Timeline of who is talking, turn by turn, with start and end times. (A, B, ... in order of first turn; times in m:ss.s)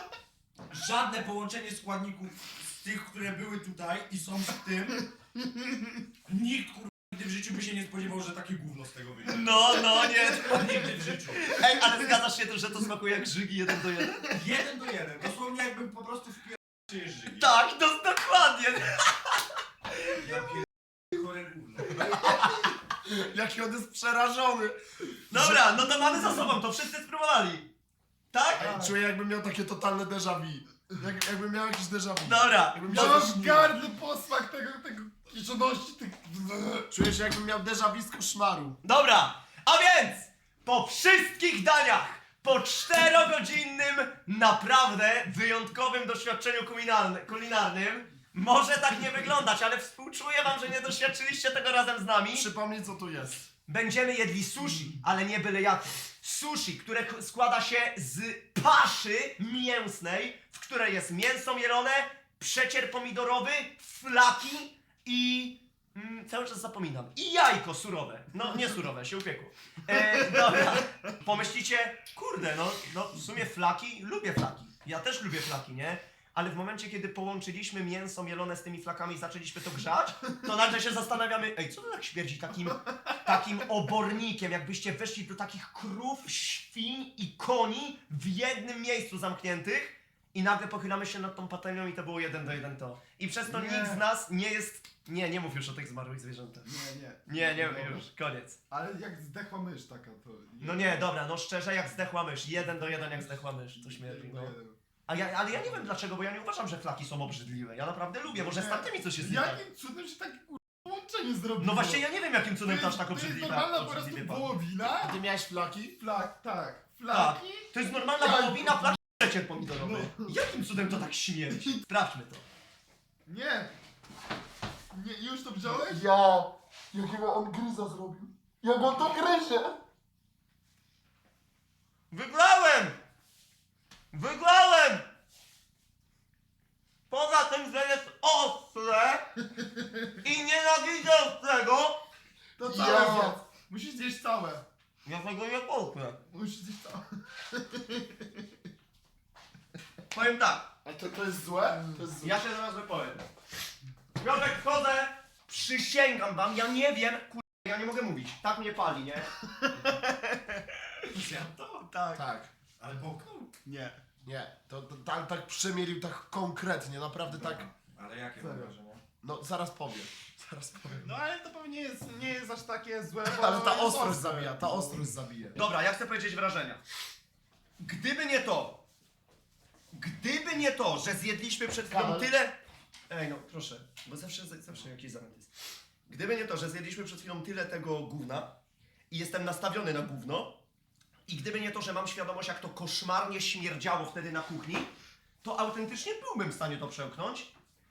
0:00.7-0:05.1 A
0:06.2-0:11.6 A
0:09.3-0:14.3 B
0:14.3-0:17.5 A
0:17.4-0:19.4 B
0:20.1-0:22.5 A
0:22.2-0:22.5 B
0:23.0-0:25.8 C
0:25.3-0:27.7 B
0:28.3-0:28.9 B
0:28.6-0:33.7 C
0:32.2-0:33.0 B
0:32.8-0:36.9 D
0:36.9-0:38.8 C
0:38.8-0:52.5 B
0:52.3-0:53.4 C
0:53.7-1:36.7 B
1:33.5-1:34.0 D
1:36.6-1:38.1 D
1:37.2-1:38.6 B
1:38.7-1:41.0 D
1:40.6-1:44.5 B
1:43.2-1:44.8 D
1:45.1-1:49.6 B
1:48.3-1:52.0 D
1:51.6-1:54.6 B
1:52.6-1:55.2 D
1:55.0-1:56.0 C
1:56.0-1:57.7 D
1:57.1-2:02.4 B
1:58.2-1:58.5 D
1:59.8-2:00.3 D
2:03.3-2:03.7 D
2:04.9-2:06.0 D
2:05.6-2:09.8 C
2:12.1-2:13.0 B
2:14.1-2:15.1 B
2:17.1-2:19.2 B
2:20.2-2:22.0 B
2:22.6-2:24.6 D
2:22.6-2:23.4 C
2:25.0-2:26.2 B
2:26.3-2:28.1 D
2:30.1-2:30.7 B
2:30.8-2:32.4 C
2:32.2-2:33.2 B
2:34.2-2:39.3 B
2:41.1-2:42.2 A
2:42.1-2:42.5 C
2:42.8-2:43.5 A
2:43.6-2:44.0 D
2:44.2-2:47.6 C
2:47.3-2:49.0 A
2:48.4-2:48.7 D
2:49.2-2:51.1 C
2:51.0-2:55.0 D
2:53.2-2:55.6 C
2:55.5-2:56.8 B
2:57.8-2:58.8 B
2:59.9-3:02.6 B
3:01.9-3:02.3 C
3:03.1-3:05.5 B
3:06.1-3:08.5 B
3:09.1-3:10.6 B
3:11.3-3:14.9 B
3:15.4-3:17.5 B